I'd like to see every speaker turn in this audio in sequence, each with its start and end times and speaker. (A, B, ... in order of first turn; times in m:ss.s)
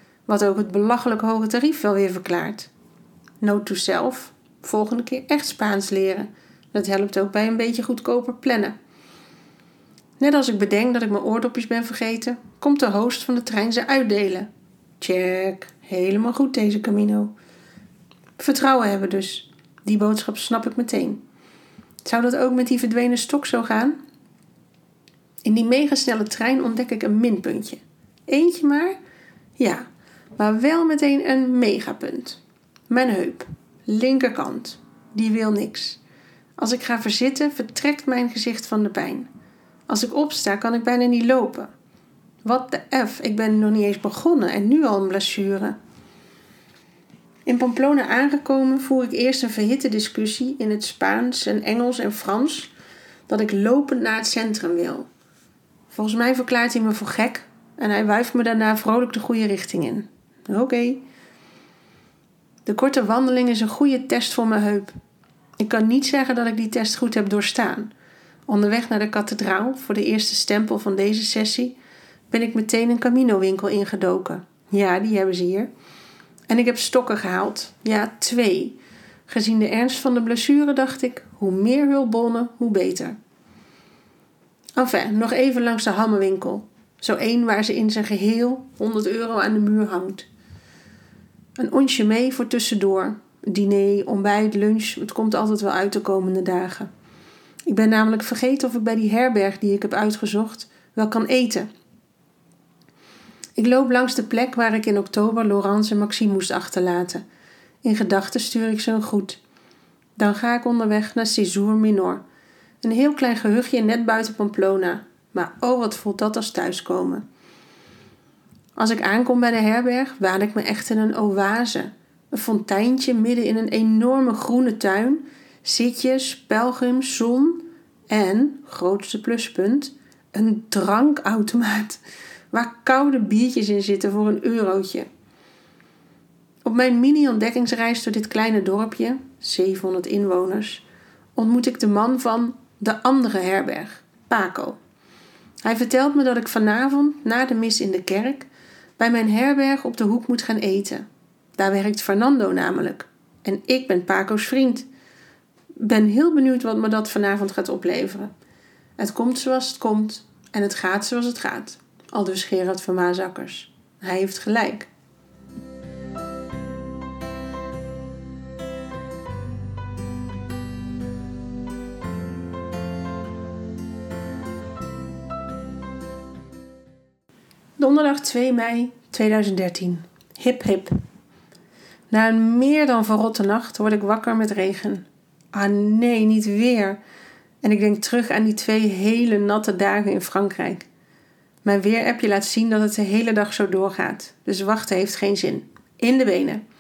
0:00.3-0:02.7 A
0:03.4-0:08.8 A
0:10.2-0:14.5 A
0:15.0-0:17.3 A
0:18.4-0:21.2 A
0:22.0-0:24.0 A
0:25.4-0:29.0 A
0:29.6-0:36.0 A
0:36.6-0:39.3 A
0:39.9-0:41.7 A
0:42.4-0:45.8 A
0:47.5-0:52.7 A
0:53.3-0:55.1 A
0:55.9-1:01.0 A
1:02.7-1:04.9 A
1:05.6-1:07.9 A
1:08.5-1:11.8 A
1:12.3-1:15.7 A
1:16.5-1:23.2 A
1:24.8-1:30.3 A
1:31.6-1:36.9 A
1:37.7-1:41.7 A
1:43.6-1:47.2 A
1:47.8-1:49.4 A
1:50.2-1:52.2 A
1:52.8-1:57.2 A
1:58.8-2:15.1 A
2:16.6-2:20.8 A
2:21.4-2:24.8 A
2:25.6-2:31.0 A
2:31.6-2:34.9 A
2:35.8-2:38.3 A
2:39.0-2:44.9 A
2:57.8-3:00.9 A
3:02.1-3:07.0 A
3:07.6-3:10.9 A
3:11.6-3:16.6 A